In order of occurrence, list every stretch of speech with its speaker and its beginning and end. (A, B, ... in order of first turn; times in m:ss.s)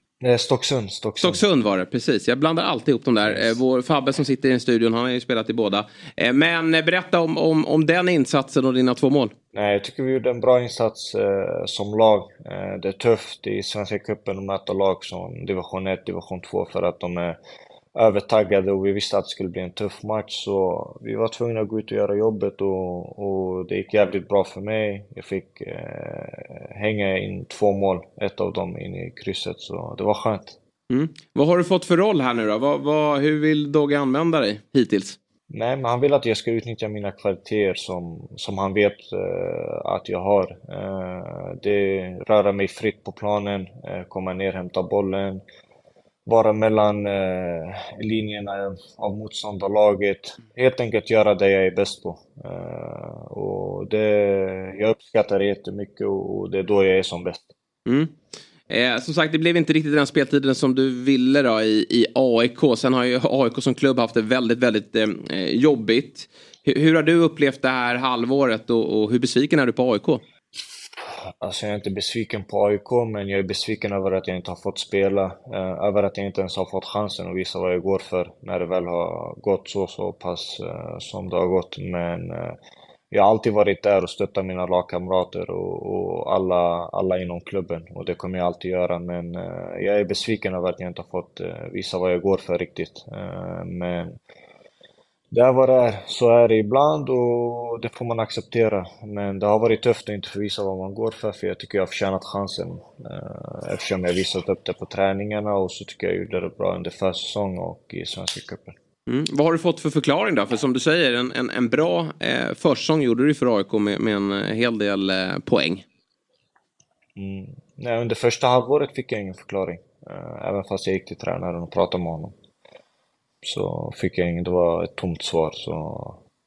0:00.2-0:01.4 A
0:01.2-0:09.3 B
0:03.2-0:03.6 A
0:09.5-0:17.4 A
0:18.0-0:30.6 A
0:30.9-0:35.2 B
0:35.5-0:45.4 A
0:46.3-0:57.5 A
0:57.8-0:58.1 B
0:58.7-1:10.2 B
1:11.4-1:22.6 A
1:23.1-1:34.2 A
1:35.3-1:48.7 A
1:49.1-1:55.8 B
1:57.2-2:02.4 A
2:03.4-2:06.2 A